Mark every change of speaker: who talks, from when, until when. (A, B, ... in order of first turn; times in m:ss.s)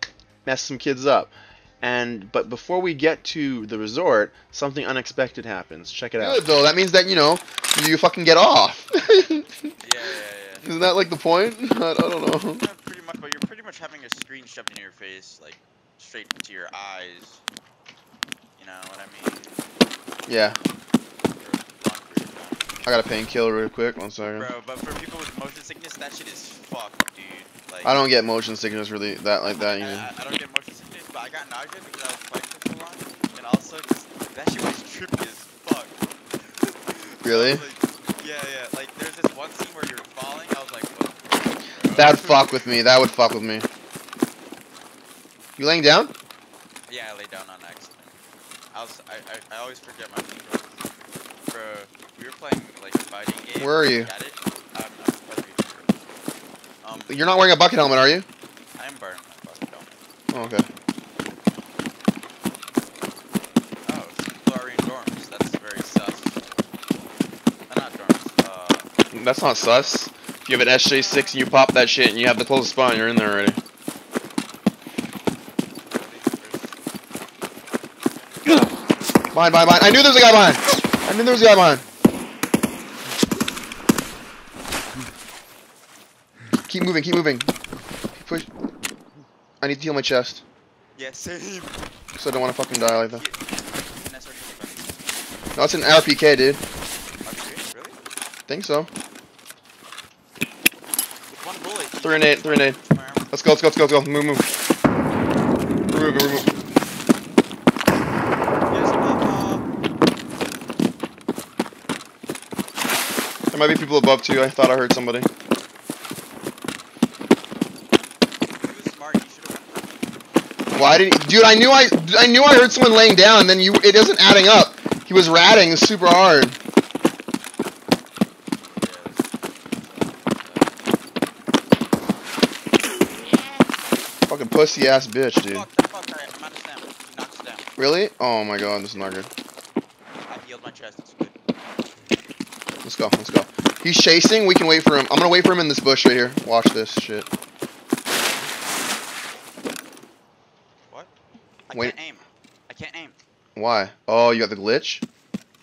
0:00.5-0:06.4 A
0:06.2-0:09.7 B
0:09.8-0:10.7 C
0:10.6-0:12.6 B
0:12.6-0:17.4 C
0:18.6-0:19.6 C
0:20.3-0:20.6 B
0:21.4-0:22.6 C
0:22.9-0:24.5 B
0:24.3-0:28.0 C
0:27.8-0:30.1 B
0:29.4-0:42.8 C
0:37.2-0:37.6 B
0:42.0-0:43.7 B
0:45.6-0:46.1 B
0:46.9-0:48.2 C
0:48.7-0:50.7 C
0:51.5-0:55.9 C
0:53.6-0:54.1 B
0:56.8-0:57.3 C
0:57.1-0:58.3 B
0:58.8-1:00.0 C
1:00.3-1:00.7 B
1:03.9-1:06.4 C
1:07.7-1:08.9 C
1:09.1-1:13.6 B
1:10.9-1:11.4 C
1:15.9-1:16.8 C
1:19.3-1:21.8 B
1:26.7-1:27.5 B
1:28.2-1:28.5 B
1:29.6-1:30.4 B
1:31.0-1:31.8 C
1:32.2-1:33.2 B
1:32.7-1:35.0 C
1:35.6-1:36.6 B
1:37.2-1:38.0 C
1:38.5-1:38.9 B
1:41.3-1:43.3 C
1:42.0-1:42.8 B
1:43.3-1:44.5 B
1:45.9-1:46.5 B
1:48.7-1:49.6 C
1:53.5-1:55.3 B
1:58.6-2:00.0 C
2:00.7-2:06.6 B
2:08.7-2:10.7 C
2:13.0-2:13.6 C
2:14.3-2:15.7 B
2:15.4-2:17.7 C
2:17.8-2:19.3 B
2:20.3-2:21.4 C
2:22.8-2:27.3 B
2:31.7-2:33.2 C
2:33.6-2:35.0 B